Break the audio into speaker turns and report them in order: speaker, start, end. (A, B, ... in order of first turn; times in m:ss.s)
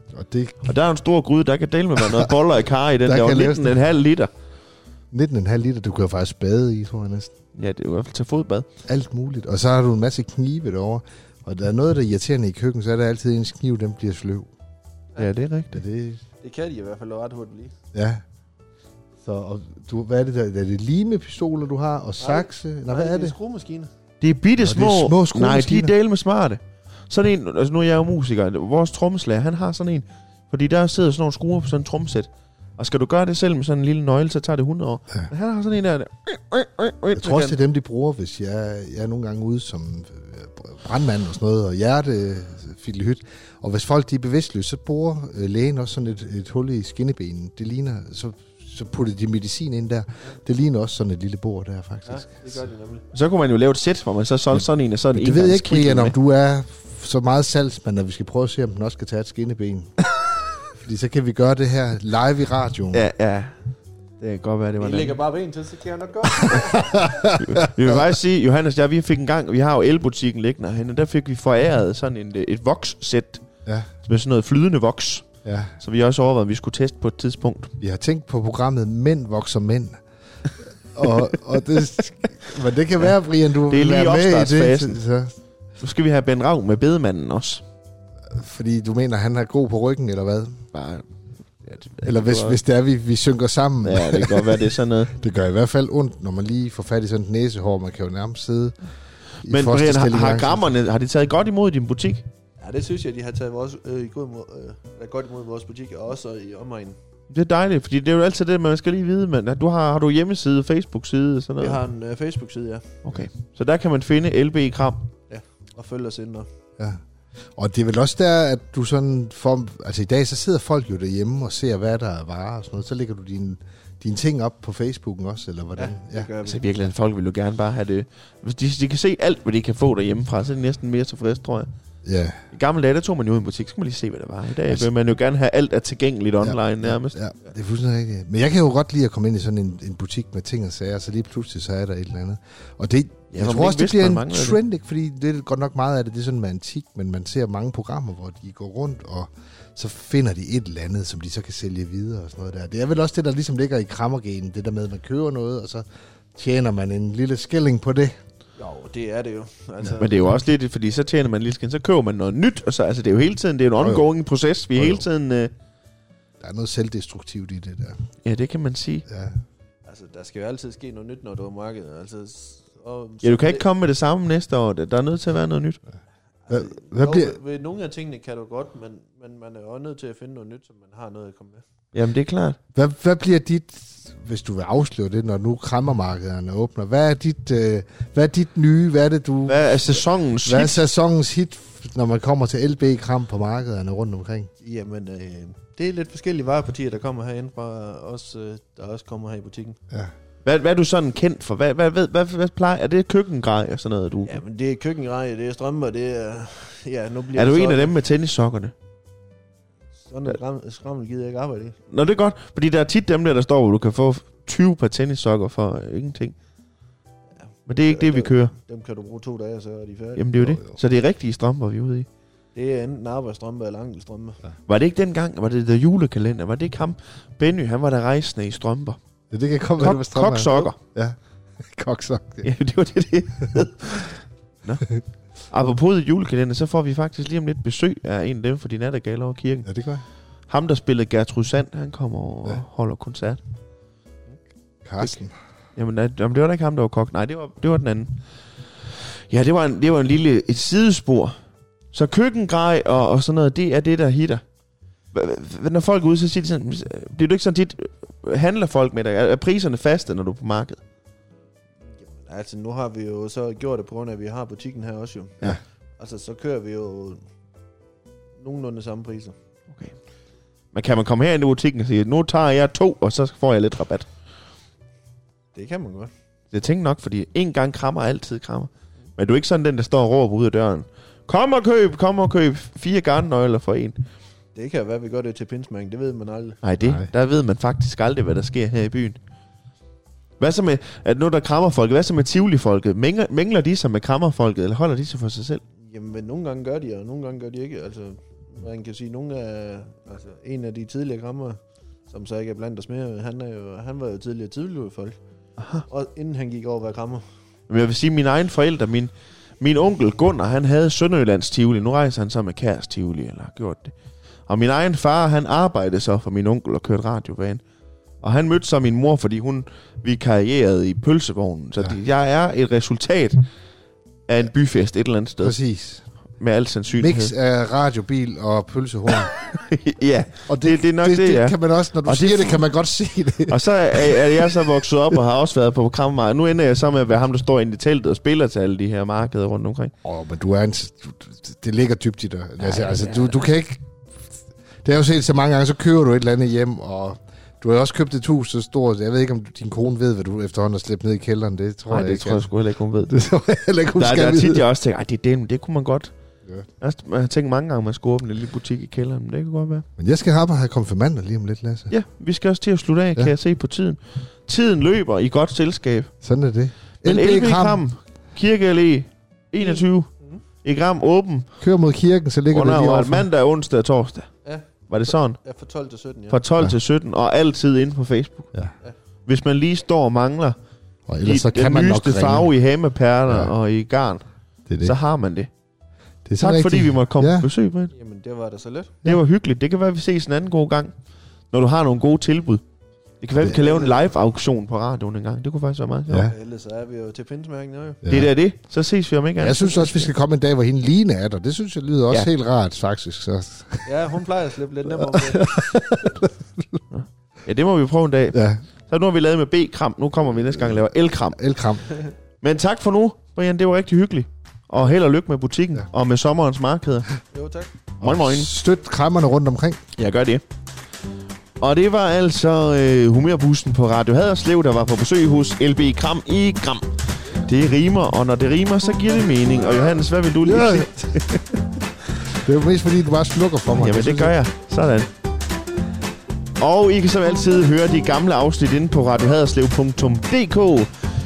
0:00.1-0:00.7 A
0:00.6-0:04.3 B
0:03.0-0:03.8 A
0:05.1-0:07.3 A
0:07.5-0:08.7 B
0:08.9-0:14.5 A
0:15.2-0:15.8 B
0:15.7-0:16.2 A
0:16.4-0:17.7 C
0:17.9-0:18.2 A
0:19.2-0:23.3 A
0:22.2-0:23.9 C
0:24.2-0:37.6 B
0:24.6-0:25.9 A
0:37.1-0:52.6 A
0:52.0-0:53.0 C
0:53.1-0:56.1 B
0:55.1-0:59.9 A
1:00.7-1:03.0 A
1:02.9-1:03.5 B
1:04.2-1:05.2 B
1:04.8-1:07.1 C
1:06.4-1:08.1 A
1:07.4-1:13.4 B
1:14.0-1:15.3 B
1:15.4-1:15.7 A
1:15.8-1:17.7 B
1:17.8-1:20.0 A
1:20.9-1:25.3 A
1:23.7-1:25.0 B
1:25.8-1:27.6 B
1:28.3-1:30.6 A
1:30.7-1:31.1 B
1:31.6-1:32.6 B
1:32.0-1:38.7 A
1:33.8-1:35.1 B
1:39.4-1:40.7 A
1:39.4-1:42.2 B
1:42.6-1:47.0 C
1:47.3-1:51.8 B
1:51.6-1:53.0 C
1:53.0-1:55.1 B
1:55.3-1:56.5 C
1:57.6-2:06.3 A
2:05.8-2:06.6 C
2:06.4-2:11.7 B
2:12.0-2:12.4 A
2:12.5-2:17.2 B
2:16.4-2:38.1 A
2:23.3-2:24.6 B
2:38.6-2:40.4 C
2:40.0-2:45.5 B
2:43.8-2:44.1 A
2:44.8-2:45.1 A
2:46.4-2:48.0 A
2:48.2-2:49.0 B
2:49.1-2:49.4 A
2:49.8-2:53.7 C
2:53.2-2:55.8 B
2:56.5-3:01.6 C
2:56.5-2:57.4 A
3:01.9-3:02.6 B
3:02.7-3:14.5 A
3:09.5-3:10.8 B
3:14.6-3:19.8 C
3:20.4-3:24.4 B
3:24.2-3:28.0 C
3:27.3-3:28.7 B
3:30.0-3:31.8 C
3:31.9-3:36.3 B
3:37.4-3:40.3 C
3:37.7-3:38.5 B
3:40.2-3:42.1 B
3:40.4-3:40.8 A
3:42.5-3:44.4 C
3:44.7-3:49.0 B
3:49.3-3:52.5 A
3:49.8-3:50.8 B
3:52.4-3:54.9 B
3:55.5-3:59.7 B
3:59.6-4:00.0 A
4:00.5-4:03.4 B
4:04.8-4:05.3 A
4:05.8-4:08.2 B
4:09.3-4:11.4 B
4:11.9-4:14.4 B
4:15.1-4:20.8 B
4:22.0-4:27.2 C
4:28.4-4:29.3 C
4:30.7-4:34.1 B
4:35.5-4:36.1 C
4:36.5-4:44.0 B
4:44.5-4:46.6 C
4:46.6-4:49.2 B
4:46.8-4:47.1 A
4:50.4-4:55.6 B
4:55.8-5:05.2 C
5:05.6-5:05.8 B
5:05.9-5:07.2 C
5:07.7-5:13.9 B
5:14.5-5:17.6 B
5:18.2-5:23.4 B
5:24.3-5:25.6 B
5:25.4-5:26.0 A
5:26.4-5:27.3 B
5:27.0-5:29.3 A
5:29.1-5:32.6 B
5:30.5-5:34.5 A
5:33.5-5:39.9 B
5:40.0-5:43.8 A
5:42.7-5:43.1 B
5:44.8-5:52.5 A
5:51.9-5:53.1 B
5:53.0-5:54.7 A
5:54.0-5:56.1 B
5:56.8-5:59.8 B
6:00.0-6:01.9 A
6:01.9-6:06.1 B
6:06.2-6:07.8 A
6:07.0-6:10.1 B
6:09.6-6:10.4 C
6:10.6-6:11.5 B
6:11.6-6:13.3 A
6:12.5-6:14.3 B
6:14.4-6:16.4 C
6:14.9-6:15.4 B
6:16.3-6:18.5 B
6:19.3-6:20.6 B
6:21.1-6:22.5 A
6:21.2-6:24.2 B
6:23.3-6:23.5 A
6:24.7-6:24.9 A
6:24.8-6:25.5 B
6:26.3-6:27.5 A
6:26.4-6:27.9 B
6:27.9-6:29.0 C
6:29.0-6:30.9 B
6:31.5-6:32.6 B
6:33.2-6:36.3 B
6:33.4-6:34.0 C
6:36.1-6:36.3 A
6:36.3-6:38.0 C
6:38.0-6:38.3 A
6:38.1-6:40.1 B
6:39.4-6:43.9 A
6:43.8-6:45.8 C
6:45.0-6:46.8 A
6:46.9-6:51.4 B
6:48.3-6:48.6 A
6:51.3-6:51.9 A
6:52.4-6:57.1 B
6:57.3-6:57.7 C
6:58.0-6:58.5 B
6:58.0-6:59.8 A
7:00.0-7:00.4 B
7:01.6-7:11.4 B
7:10.4-7:11.6 A
7:12.2-7:14.4 A
7:13.7-7:15.1 B
7:16.6-7:20.9 B